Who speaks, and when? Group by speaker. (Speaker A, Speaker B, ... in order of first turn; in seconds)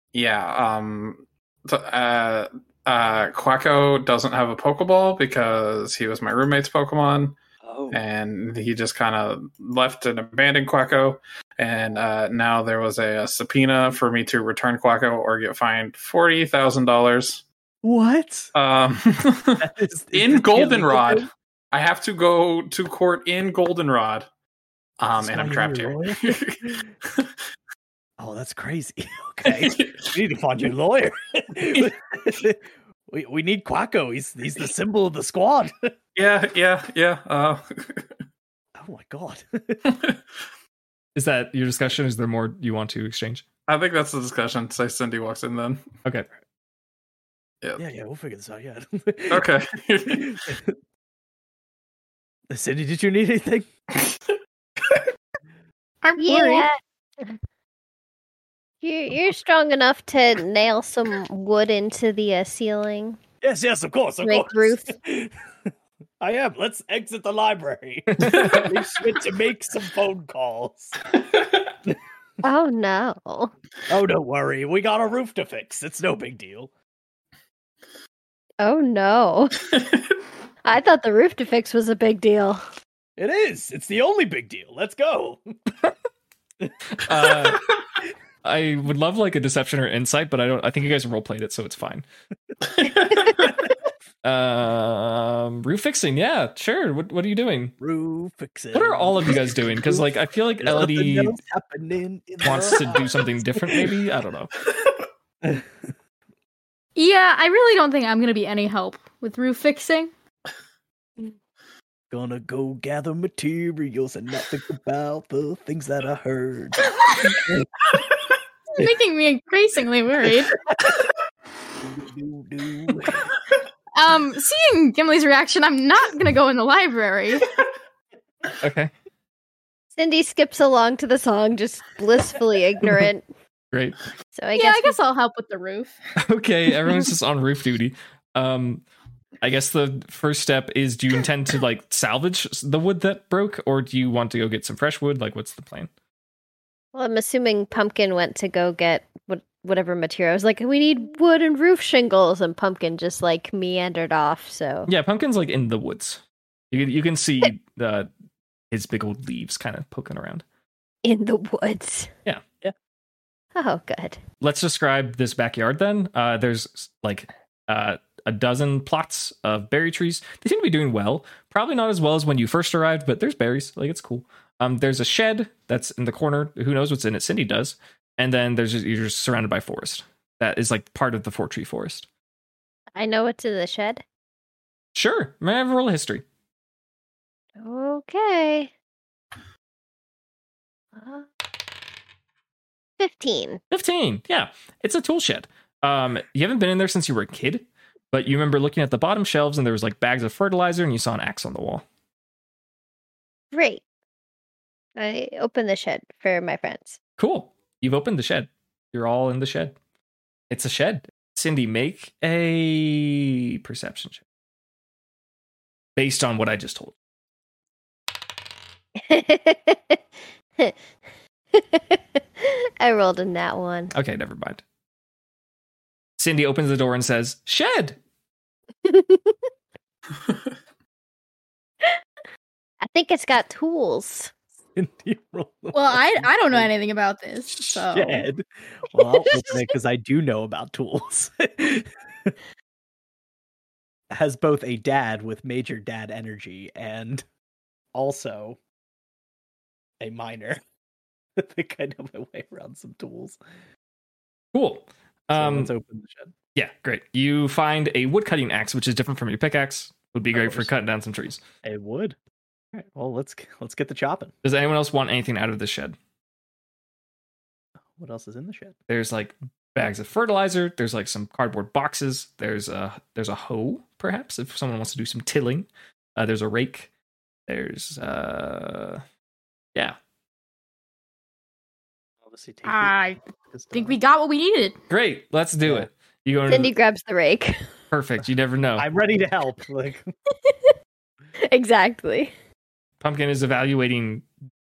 Speaker A: 0.1-7.4, 7.9-17.4, 18.5-24.3, 25.0-27.3, 29.4-30.1, 36.1-38.1, 39.9-40.3, 43.7-45.8, 49.3-50.5, 71.4-71.6, 79.7-80.0, 92.7-93.6
Speaker B: 7.6-8.0, 17.8-18.5, 19.6-21.3, 25.1-26.9, 28.2-35.9, 38.8-39.8, 47.8-49.5, 50.1-50.7, 52.5-53.7, 63.4-71.0, 73.9-76.7, 83.2-85.8, 97.8-104.0, 105.4-105.9, 112.1-117.8, 120.7-121.0, 121.8-123.3, 234.7-236.7, 237.9-242.3, 244.1-247.2, 247.9-248.6, 250.0-250.6, 251.3-253.4, 255.3-256.3, 260.3-260.7, 261.6-262.1, 262.7-264.3, 267.9-268.8, 282.2-284.0, 285.6-285.9, 288.8-290.1
Speaker C: 41.1-43.4, 68.1-68.7, 86.9-87.6, 88.4-92.0, 94.2-97.7, 98.7-101.4, 102.4-104.5, 128.6-128.9, 133.7-134.0, 136.2-138.8, 139.4-145.9, 154.9-158.1, 158.7-160.4, 164.4-182.1, 184.9-186.2, 193.7-201.8, 207.2-209.8, 210.5-214.2, 215.9-216.9, 223.9-224.6, 226.2-228.0, 254.5-255.7, 256.5-261.4, 264.4-265.9, 268.9-276.9, 277.5-279.0, 284.9-286.7, 287.9-288.9, 293.0-294.2
Speaker D: 56.0-56.7, 107.0-110.1, 118.7-120.5, 123.9-127.5, 134.5-136.0, 235.7-238.3, 282.6-283.2, 283.7-284.8
Speaker E: 56.2-57.4, 58.8-63.2, 64.2-65.0, 72.4-73.5, 78.6-79.6, 80.6-82.6, 129.9-133.2, 134.3-135.0, 146.9-154.9, 161.0-162.1, 163.5-164.2, 183.0-184.0, 187.6-188.7, 190.9-191.3, 193.0-193.6, 203.5-203.8, 205.0-207.0, 219.0-220.0, 221.5-223.9, 228.8-229.4, 232.8-234.3, 286.5-287.6, 291.4-292.3